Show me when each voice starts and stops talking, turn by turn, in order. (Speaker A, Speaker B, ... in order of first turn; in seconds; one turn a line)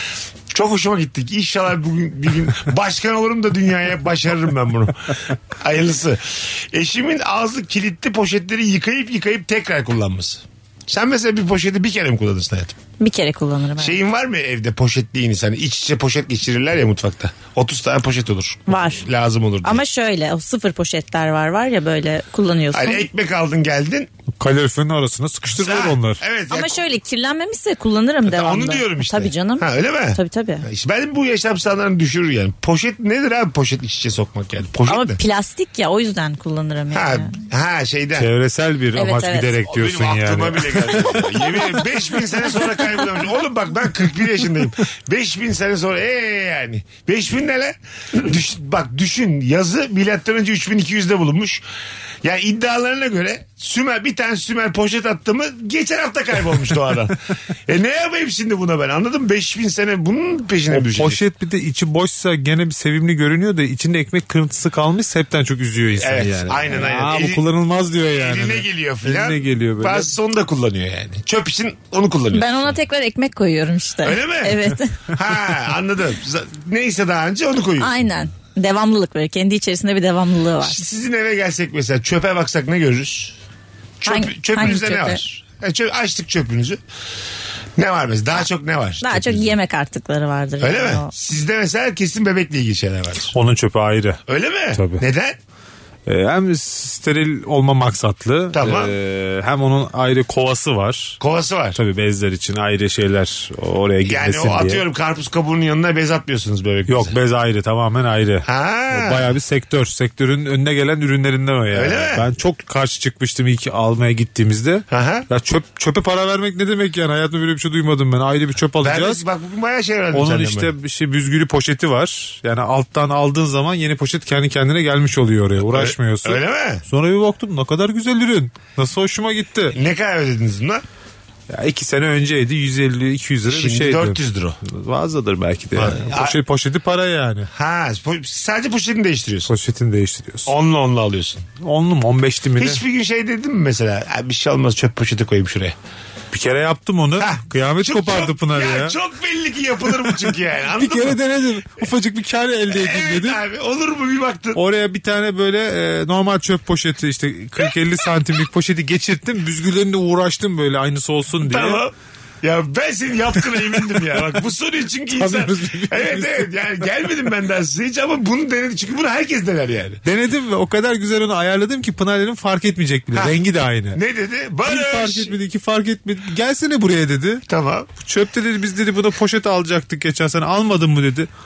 Speaker A: 0.5-5.0
Speaker A: 5.6-12.8
Speaker B: 13.0-14.0
Speaker A: 13.8-19.8
Speaker B: 18.7-19.1
Speaker B: 19.6-23.1
Speaker A: 22.7-24.1
Speaker C: 24.4-26.2
Speaker A: 25.6-26.8
Speaker B: 26.5-30.6
Speaker A: 28.2-35.2
Speaker B: 34.9-37.4
Speaker A: 36.9-38.3
Speaker C: 38.2-41.2
Speaker B: 39.0-39.6
Speaker A: 39.7-51.6
Speaker A: 52.2-57.2
Speaker A: 57.7-61.2
Speaker C: 60.7-70.1
Speaker A: 66.0-67.4
Speaker A: 68.2-72.7
Speaker B: 72.3-75.0
Speaker A: 74.0-77.9
Speaker B: 77.8-80.8
Speaker A: 80.6-83.4
Speaker A: 84.0-86.8
Speaker B: 84.1-85.2
Speaker A: 87.8-89.5
Speaker B: 89.0-91.1
Speaker A: 90.6-93.3
Speaker C: 93.3-94.2
Speaker A: 94.3-95.4
Speaker C: 94.7-95.0
Speaker C: 96.1-101.2
Speaker A: 98.5-98.9
Speaker A: 101.2-101.8
Speaker C: 101.8-104.8
Speaker A: 104.1-107.2
Speaker C: 106.9-119.2
Speaker A: 108.5-109.3
Speaker A: 111.7-112.3
Speaker A: 114.9-115.3
Speaker A: 118.8-120.7
Speaker C: 120.1-129.8
Speaker A: 125.7-126.8
Speaker A: 129.7-130.8
Speaker C: 131.5-137.5
Speaker A: 133.5-134.6
Speaker A: 135.8-136.4
Speaker A: 137.5-139.5
Speaker C: 139.5-140.5
Speaker A: 140.5-141.5
Speaker C: 141.6-142.8
Speaker A: 142.6-145.8
Speaker C: 146.3-148.9
Speaker A: 147.2-151.2
Speaker C: 150.8-153.4
Speaker A: 152.7-154.6
Speaker C: 154.6-161.8
Speaker A: 161.4-170.0
Speaker C: 165.1-166.5
Speaker C: 170.1-174.0
Speaker A: 173.9-175.3
Speaker C: 174.7-177.4
Speaker A: 177.5-177.9
Speaker C: 178.0-181.3